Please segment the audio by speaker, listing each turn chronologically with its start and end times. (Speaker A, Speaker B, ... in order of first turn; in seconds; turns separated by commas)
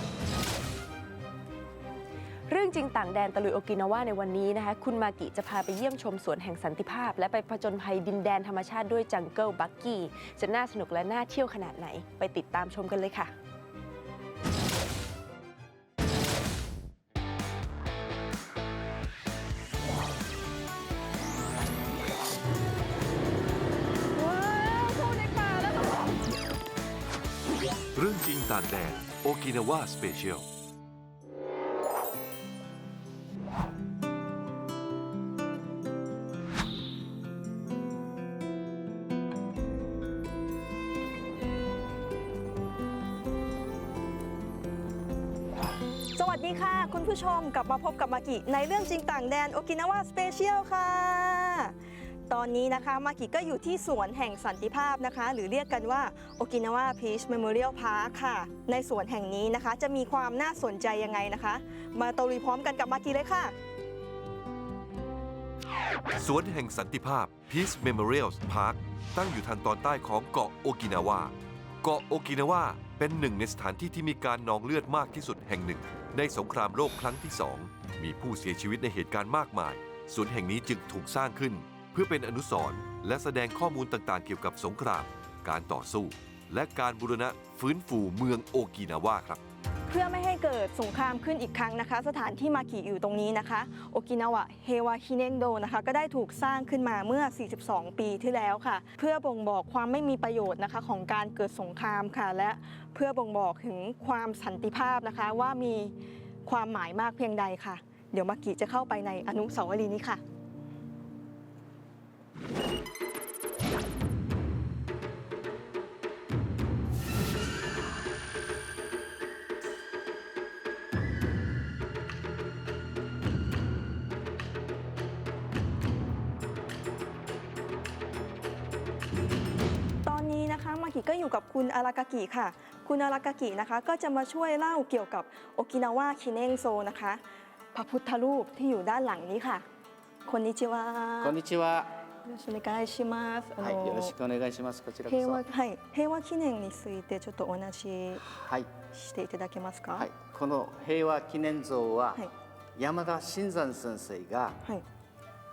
Speaker A: 2.5-13.3, Speaker B: 24.2-25.9, Speaker C: 27.9-30.4, Speaker B: 46.1-51.7, Speaker B: 52.3-63.5, Speaker C: 66.2-89.4, Speaker B: 89.9-105.9, Speaker B: 106.5-110.2, Speaker B: 130.1-137.2, Speaker B: 137.7-139.7, Speaker B: 140.2-141.4, Speaker D: 141.2-141.9, Speaker B: 142.2-144.1, Speaker D: 143.6-145.4, Speaker B: 145.1-148.3, Speaker D: 148.3-148.7, Speaker B: 148.9-150.1, Speaker D: 149.9-152.2, Speaker D: 152.8-154.6